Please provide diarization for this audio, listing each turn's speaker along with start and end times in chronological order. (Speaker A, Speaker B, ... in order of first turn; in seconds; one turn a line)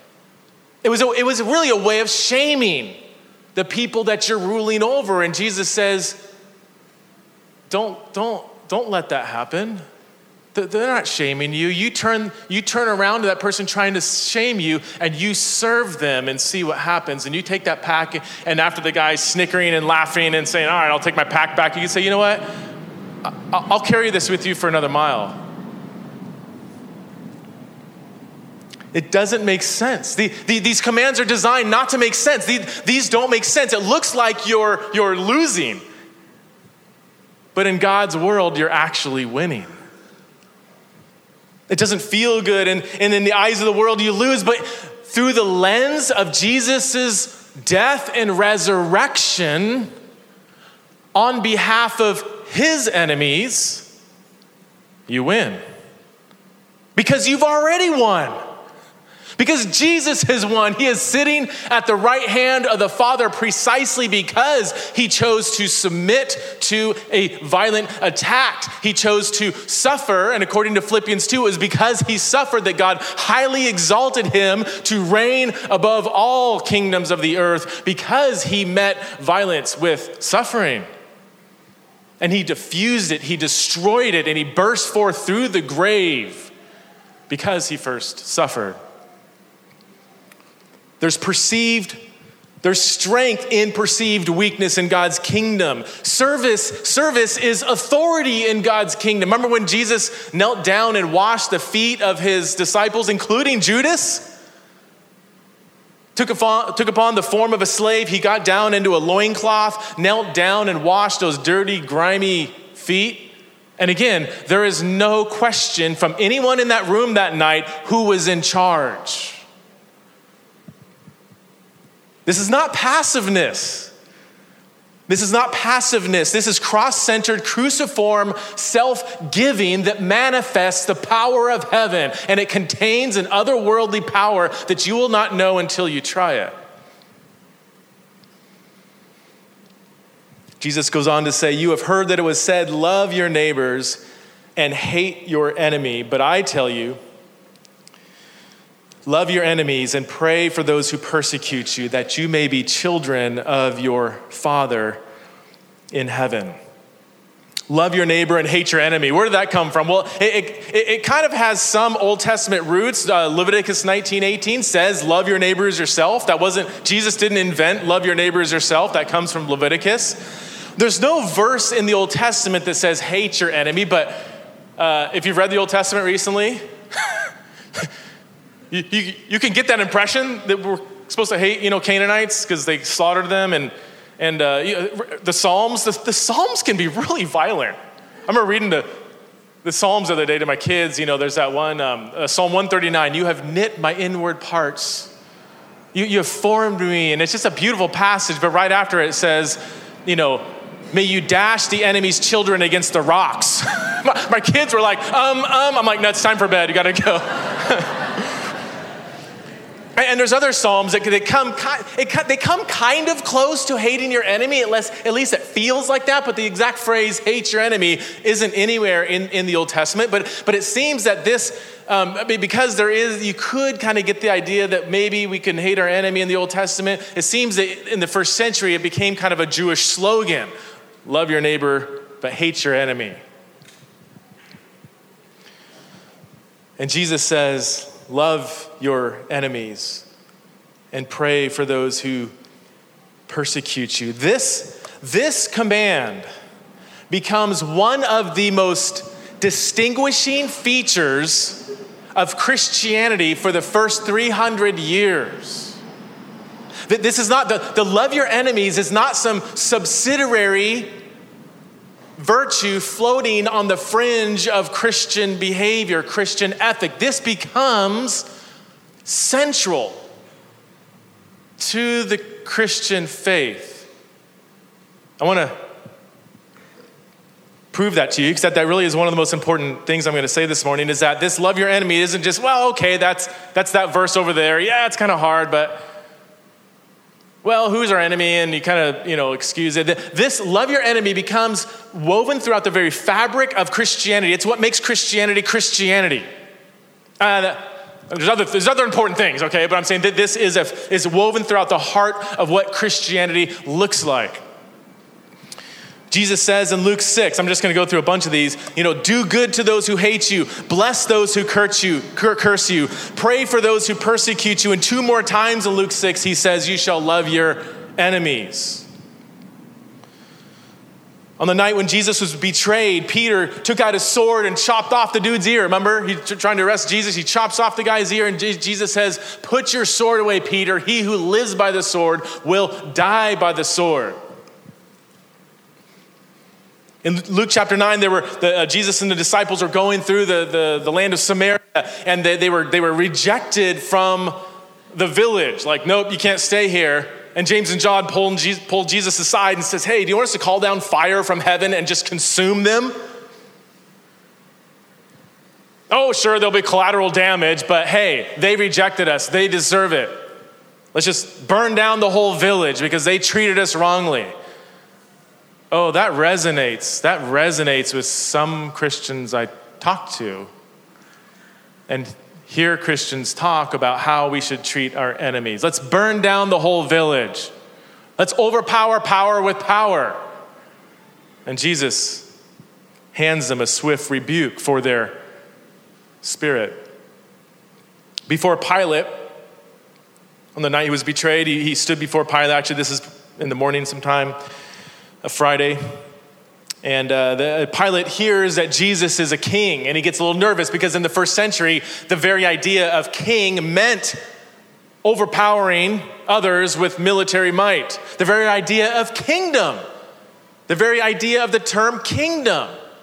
Speaker A: 0.8-3.0
Speaker A: 3.5-6.2
Speaker A: 7.7-9.8
Speaker A: 10.5-22.5
Speaker A: 23.2-25.4
Speaker A: 28.9-35.8
Speaker A: 37.5-39.7
Speaker A: 41.7-49.9
Speaker A: 51.1-53.9
Speaker A: 55.1-55.6
Speaker A: 57.0-58.4
Speaker A: 59.4-80.9
Speaker A: 82.2-86.5
Speaker A: 87.3-88.8
Speaker A: 91.0-92.0
Speaker A: 92.6-104.3
Speaker A: 106.2-119.4
Speaker A: 122.3-123.9
Speaker A: 125.1-136.6
Speaker A: 140.6-144.0
Speaker A: 144.6-147.0
Speaker A: 149.1-155.0
Speaker A: 155.9-156.6
Speaker A: 157.7-170.2
Speaker A: 170.8-177.2
Speaker A: 178.7-188.9
Speaker A: 189.6-195.1
Speaker A: 195.9-208.4
Speaker A: 210.0-230.5
Speaker A: 231.1-233.2
Speaker A: 236.8-240.1
Speaker A: 240.9-242.3
Speaker A: 243.3-246.3
Speaker A: 247.1-255.8
Speaker A: 256.9-260.9
Speaker A: 262.2-268.3
Speaker A: 269.1-270.0
Speaker A: 271.6-273.9
Speaker A: 275.2-275.6
Speaker A: 277.7-285.9
Speaker A: 287.4-296.3
Speaker A: 297.2-304.4
Speaker A: 306.1-318.9
Speaker A: 321.4-334.2
Speaker A: 337.0-344.4
Speaker A: 344.9-352.9
Speaker A: 355.9-360.2
Speaker A: 360.9-364.3
Speaker A: 365.7-370.5
Speaker A: 371.9-377.5
Speaker A: 378.2-380.2
Speaker A: 381.5-382.3
Speaker A: 383.1-385.2
Speaker A: 386.2-386.8
Speaker A: 388.3-389.4
Speaker A: 390.6-394.4
Speaker A: 395.2-395.8
Speaker A: 396.8-404.2
Speaker A: 405.0-409.8
Speaker A: 410.7-412.7